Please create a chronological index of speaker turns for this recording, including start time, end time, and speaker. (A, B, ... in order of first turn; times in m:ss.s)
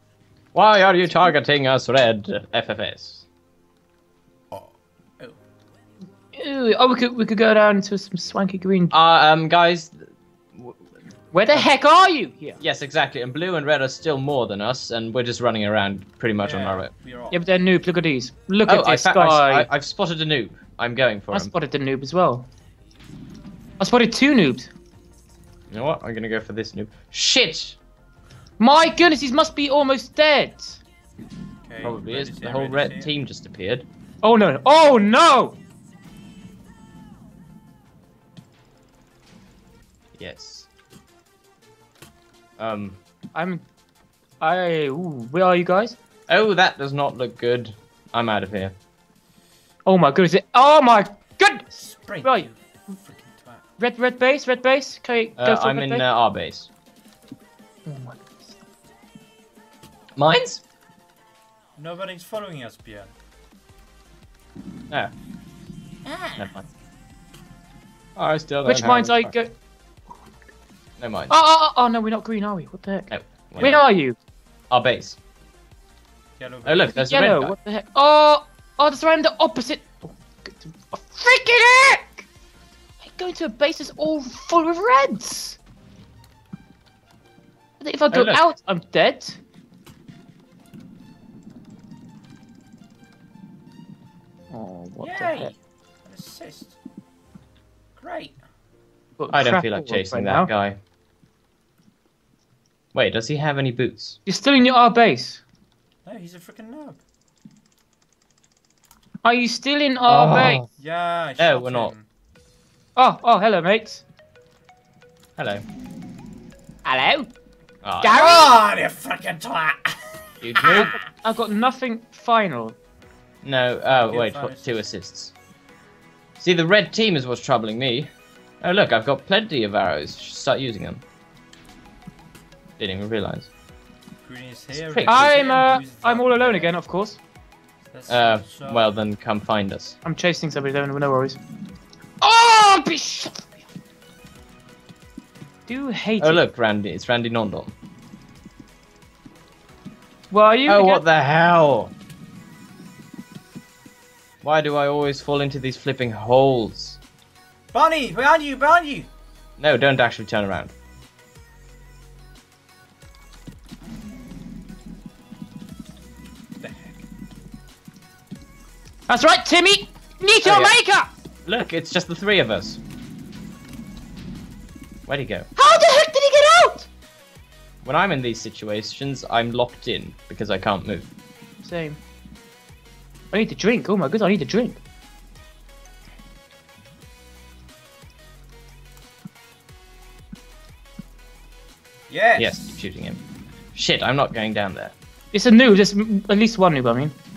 0:00.5-0:03.2 A
0:04.5-0:05.4 B
0:06.3-0:08.9 C
0:08.9-0:10.9 A
0:11.3-0:12.6 C
0:12.6-0:16.9 A
0:16.4-0:17.4 B
0:17.3-0:19.7 C
0:18.7-0:21.5 A
0:21.3-0:22.5 C
0:23.8-0:24.7 C
0:25.7-0:27.8 A
0:28.6-0:30.8 C
0:31.7-0:33.1 B
0:31.8-0:33.9 A
0:34.2-0:35.6 C
0:40.2-0:40.7 A
0:42.6-0:43.0 A
0:43.3-0:43.6 C
0:44.4-0:46.0 C
0:46.3-0:48.8 A
0:49.9-0:52.5 C
0:51.8-0:53.6 B
0:53.8-0:56.1 C
0:55.4-0:56.7 A
0:57.9-0:58.4 C
1:00.2-1:00.6 A
1:01.8-1:03.1 B
1:06.1-1:06.4 B
1:06.4-1:06.7 A
1:08.2-1:09.4 A
1:08.6-1:09.5 C
1:11.0-1:11.3 A
1:11.3-1:14.2 C
1:13.1-1:13.8 A
1:14.7-1:15.2 A
1:16.4-1:16.9 B
1:16.6-1:17.6 A
1:16.9-1:22.3 C
1:23.0-1:25.6 C
1:27.8-1:29.4 C
1:28.1-1:28.4 A
1:34.5-1:35.5 C
1:35.0-1:36.8 B
1:38.0-1:38.4 B
1:39.2-1:40.5 C
1:39.3-1:40.8 A
1:42.9-1:44.2 A
1:44.3-1:45.4 C
1:46.0-1:47.0 B
1:49.2-1:50.6 C
1:50.1-1:50.7 A
1:50.8-1:52.0 B
1:51.4-1:51.9 A
1:53.0-1:54.0 C
1:55.4-1:55.6 A
1:56.8-1:57.3 C
1:57.8-1:58.2 A
1:58.0-1:58.6 C
1:58.1-2:00.0 B
2:00.4-2:01.0 A
2:00.6-2:01.0 B
2:00.6-2:02.8 C
2:03.4-2:05.3 A
2:03.9-2:04.8 B
2:06.4-2:11.0 A
2:12.8-2:13.5 A
2:14.2-2:16.7 B
2:14.7-2:15.3 A
2:15.1-2:17.2 C
2:17.9-2:18.9 B
2:18.1-2:20.0 A
2:20.0-2:21.4 C
2:22.2-2:23.5 C
2:25.7-2:26.4 C
2:26.2-2:27.7 A
2:30.3-2:31.0 C
2:30.7-2:31.9 A
2:34.4-2:37.0 A
2:37.7-2:39.1 B
2:39.6-2:40.7 A
2:46.6-2:47.0 B
2:49.1-2:51.1 C
2:50.4-2:50.8 A
2:51.4-2:52.8 A
2:55.1-2:55.5 A
2:55.6-2:56.9 C
2:57.8-3:01.1 A
3:01.6-3:02.0 C
3:03.3-3:04.8 C
3:12.1-3:12.8 B
3:12.4-3:13.2 A
3:13.7-3:14.9 A
3:15.3-3:17.1 C